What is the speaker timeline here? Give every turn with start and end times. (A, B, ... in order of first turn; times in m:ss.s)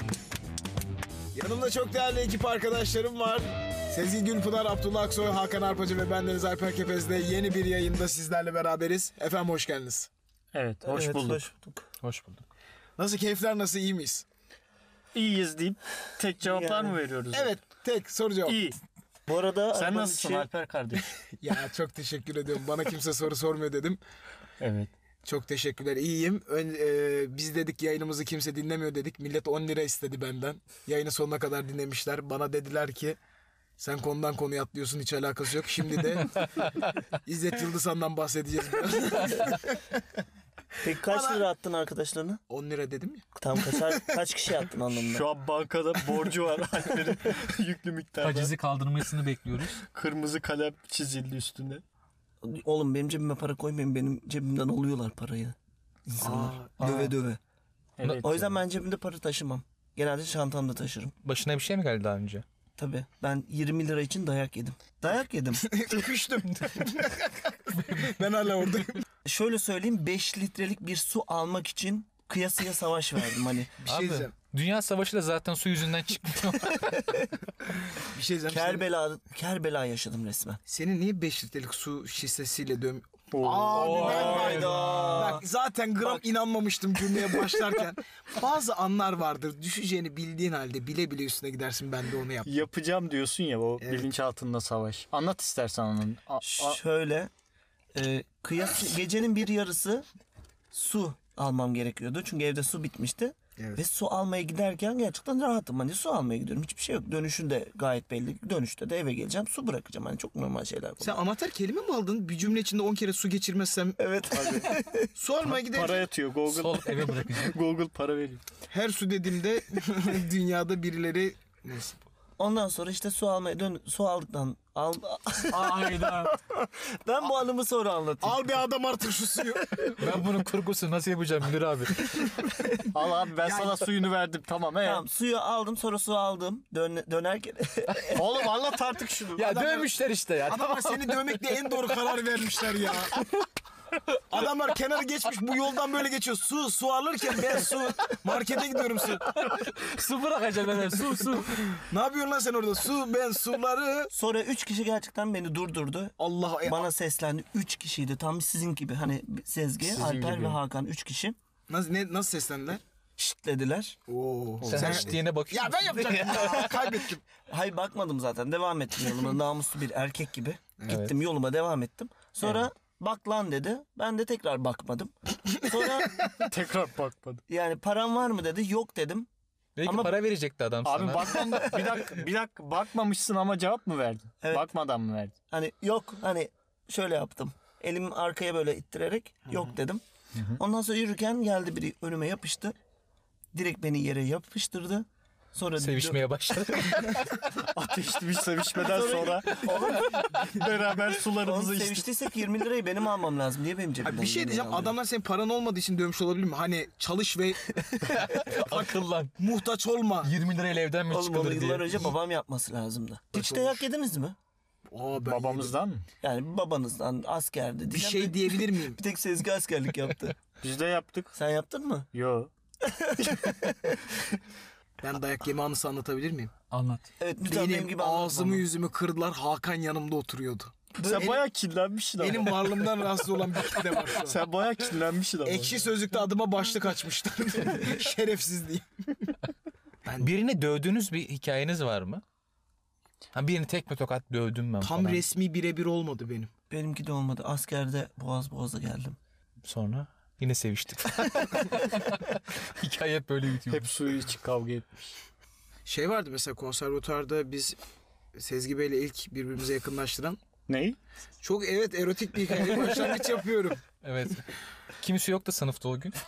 0:01.3-0:10.1 A
0:10.5-0:11.4 B
0:10.8-0:11.8 C
0:12.0-0:12.4 D
0:13.0-0:14.2 A
0:15.1-0:17.5 B
0:16.4-0:17.0 C
0:17.3-0:18.6 A
0:18.4-0:18.8 B
0:19.3-0:20.5 C
0:19.7-0:21.1 B
0:21.4-0:24.0 A
0:24.6-0:24.9 B
0:25.2-0:33.2 A
0:33.8-0:36.7 A
0:37.2-0:39.8 A
0:40.8-0:42.4 C
0:41.1-0:41.4 A
0:42.5-0:43.2 A
0:43.4-0:45.3 C
0:44.9-0:48.5 B
0:48.2-0:49.8 D
0:49.8-0:51.8 B
0:52.4-0:55.6 C
0:56.1-0:57.4 C
0:56.2-0:57.0 A
0:56.8-0:57.1 B
0:58.0-0:58.6 B
0:58.2-1:01.1 C
1:01.2-1:02.4 D
1:02.8-1:05.7 C
1:05.6-1:09.0 A
1:07.7-1:08.2 D
1:09.2-1:13.8 C
1:13.8-1:14.3 A
1:13.8-1:17.2 D
1:18.0-1:18.8 A
1:18.4-1:20.6 C
1:20.7-1:32.6 A
1:23.3-1:25.0 B
1:23.7-1:25.4 D
1:23.9-1:25.4 C
1:32.4-1:36.8 B
1:33.8-1:34.1 A
1:36.4-1:37.3 C
1:37.9-1:40.0 C
1:40.7-1:51.2 C
1:43.6-1:43.8 A
1:51.0-1:54.0 A
1:54.0-1:55.1 C
1:54.3-1:54.7 B
1:55.1-1:56.1 A
1:55.4-1:58.4 B
1:56.5-1:57.5 D
1:58.7-2:02.0 A
2:02.4-2:08.4 C
2:05.5-2:06.3 D
2:08.2-2:10.0 A
2:10.0-2:12.1 D
2:12.9-2:15.0 B
2:13.4-2:13.9 A
2:14.8-2:18.3 C
2:18.1-2:19.7 B
2:19.4-2:21.2 D
2:19.6-2:19.9 A
2:20.4-2:23.2 A
2:24.3-2:29.3 A
2:29.3-2:31.8 D
2:31.8-2:34.1 A
2:34.1-2:41.4 C
2:36.2-2:36.9 A
2:39.8-2:40.6 B
2:41.7-2:42.8 A
2:43.2-2:44.0 C
2:44.1-2:47.2 A
2:44.6-2:45.1 B
2:44.7-2:46.8 D
2:46.0-2:46.9 C
2:47.5-2:56.3 C
2:56.4-2:57.4 B
2:57.5-2:59.3 C
2:59.8-3:01.6 D
2:59.8-3:00.2 C
3:00.8-3:05.3 B
3:04.4-3:04.7 C
3:05.5-3:10.0 C
3:10.5-3:12.7 C
3:13.5-3:17.0 C
3:15.8-3:17.5 D
3:17.6-3:22.0 B
3:18.8-3:20.3 C
3:19.5-3:20.5 D
3:21.4-3:24.9 C
3:24.0-3:30.3 A
3:28.0-3:29.3 D
3:30.2-3:32.1 D
3:31.1-3:34.4 C
3:33.3-3:33.8 A
3:34.9-3:35.7 A
3:35.2-3:36.0 B
3:36.2-3:40.4 C
3:37.9-3:39.0 A
3:40.6-3:41.3 B
3:41.3-3:42.1 C
3:42.1-3:42.5 B
3:42.8-3:44.1 C
3:45.0-3:46.5 A
3:46.7-3:47.0 D
3:47.2-3:48.6 C
3:47.4-3:51.3 A
3:51.0-3:51.4 C
3:51.0-3:52.9 B
3:52.2-3:54.4 A
3:54.1-3:55.9 B
3:55.4-3:59.3 A
4:00.0-4:00.3 A
4:00.2-4:02.2 D
4:03.3-4:05.2 D
4:04.8-4:06.5 A
4:06.7-4:09.2 C
4:09.6-4:13.9 D
4:13.7-4:15.1 B
4:15.8-4:17.8 A
4:18.3-4:20.4 A
4:20.7-4:21.0 B
4:21.4-4:23.8 A
4:24.0-4:24.5 D
4:25.0-4:26.2 D